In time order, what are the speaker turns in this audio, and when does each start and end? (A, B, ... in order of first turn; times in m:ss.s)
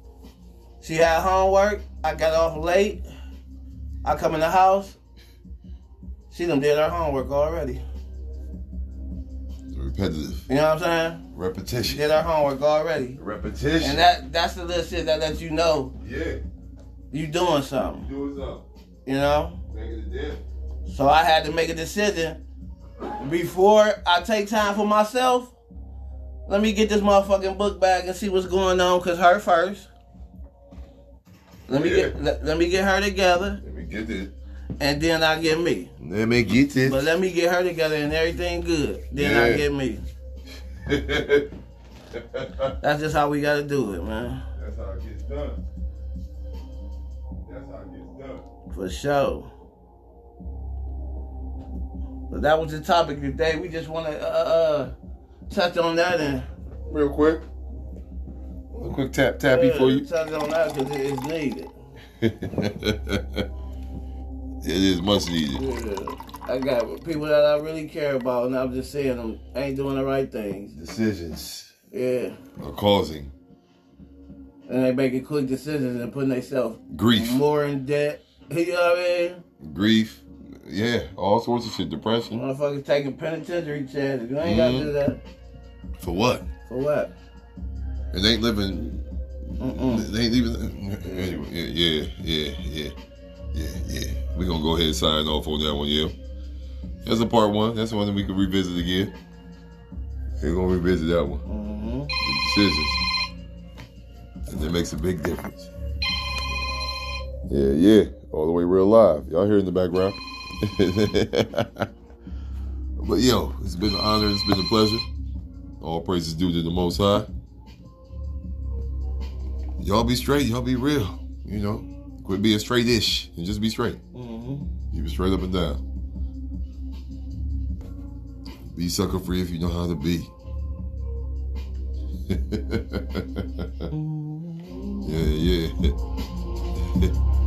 0:00.8-0:03.0 A
0:04.0-0:05.0 A
0:06.3-0:07.8 A
0:09.7-0:10.5 B
0:10.5-0:11.2 A
0:11.3-0:12.0 B
0:11.8-0:13.2 A
0:13.2-0:14.1 B
0:13.8-0:15.9 A
0:16.0-0:16.4 B
0:17.1-0:18.1 A
0:18.0-0:18.6 B
0:19.0-0:19.6 A
0:19.7-0:20.4 B
0:20.9-0:22.4 A
0:23.2-0:25.5 A
0:26.5-0:29.9 A
0:31.7-0:33.6 A
0:31.7-0:32.1 B
0:33.6-0:34.3 B
0:34.8-0:35.9 A
0:36.0-0:37.1 B
0:36.8-0:40.0 A
0:39.1-0:39.6 B
0:40.9-0:41.5 B
0:42.1-0:42.7 B
0:42.8-0:44.4 A
0:44.6-0:45.6 B
0:47.4-0:48.4 B
0:48.7-0:49.5 A
0:52.3-0:54.9 A
0:55.5-0:56.4 A
0:56.9-0:57.4 B
0:58.7-1:00.0 B
0:59.5-1:01.7 A
1:02.2-1:03.4 B
1:04.6-1:05.6 B
1:05.5-1:10.8 A
1:10.8-1:11.7 B
1:11.9-1:12.4 A
1:12.6-1:13.3 B
1:14.7-1:19.4 A
1:16.9-1:17.4 B
1:19.6-1:22.4 B
1:22.3-1:25.2 A
1:24.4-1:24.9 B
1:26.0-1:26.4 B
1:26.6-1:27.1 A
1:28.1-1:29.0 B
1:29.6-1:30.1 A
1:29.6-1:32.9 B
1:31.0-1:31.4 A
1:33.5-1:36.1 B
1:37.0-1:39.1 B
1:40.4-1:41.4 B
1:41.4-1:42.1 A
1:42.2-1:43.0 B
1:44.4-1:45.7 B
1:47.5-1:51.9 B
1:53.0-1:55.0 B
1:55.8-1:57.3 B
1:59.8-2:04.0 B
2:04.1-2:04.7 A
2:04.9-2:05.8 B
2:08.7-2:10.3 B
2:12.3-2:13.9 B
2:13.9-2:15.1 A
2:15.0-2:16.0 B